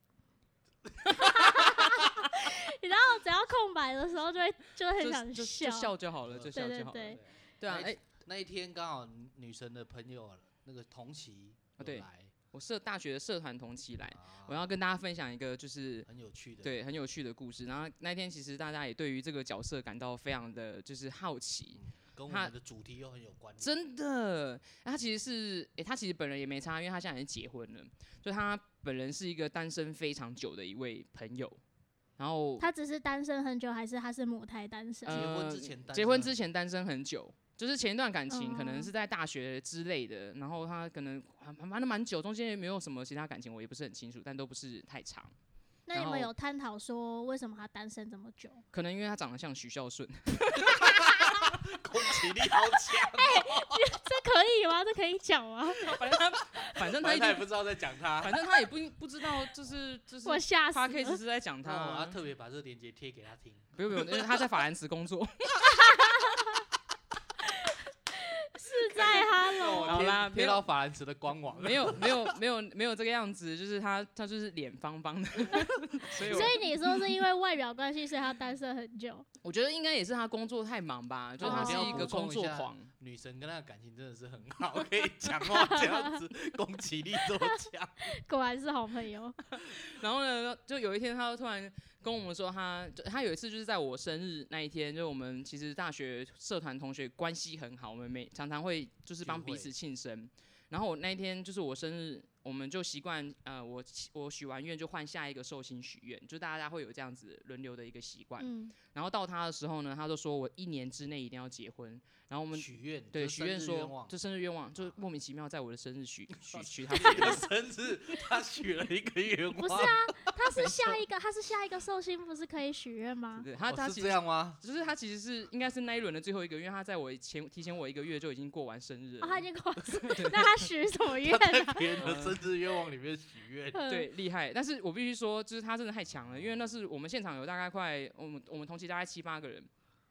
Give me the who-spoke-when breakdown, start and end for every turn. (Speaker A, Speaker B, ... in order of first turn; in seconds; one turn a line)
Speaker A: 1.0-1.9
Speaker B: 1.2-5.9
Speaker C: 5.0-8.0
Speaker A: 6.3-12.3
Speaker B: 6.5-7.2
Speaker C: 11.8-16.1
Speaker A: 14.1-14.7
Speaker A: 16.1-16.8
Speaker C: 16.6-22.5
Speaker A: 21.8-23.8
Speaker C: 23.6-31.6
Speaker C: 32.2-32.7
Speaker B: 32.6-35.2
Speaker C: 35.1-45.3
Speaker A: 35.1-36.4
Speaker B: 38.3-38.9
Speaker B: 45.9-48.6
Speaker C: 45.9-46.3
Speaker C: 48.7-51.2
Speaker A: 50.7-54.0
Speaker B: 52.8-56.0
Speaker C: 55.8-57.5
Speaker A: 56.8-58.4
Speaker C: 58.2-62.2
Speaker B: 60.2-61.2
Speaker A: 61.6-64.4
Speaker C: 63.8-65.7
Speaker B: 66.0-66.4
Speaker B: 67.5-70.0
Speaker A: 68.9-72.4
Speaker C: 69.8-70.6
Speaker C: 71.6-76.6
Speaker A: 76.2-76.5
Speaker B: 76.2-79.3
Speaker C: 79.4-82.9
Speaker A: 81.4-88.0
Speaker B: 81.4-82.1
Speaker B: 85.5-86.0
Speaker B: 88.0-89.4
Speaker C: 89.8-117.5
Speaker A: 99.2-99.7
Speaker B: 108.4-108.8
Speaker A: 112.5-114.2
Speaker A: 116.4-120.2
Speaker B: 119.6-123.5
Speaker C: 120.5-121.0
Speaker C: 123.4-130.4
Speaker A: 123.7-124.6
Speaker B: 129.2-132.1
Speaker A: 131.1-133.8
Speaker C: 132.0-132.4
Speaker B: 133.7-134.1
Speaker C: 133.9-139.7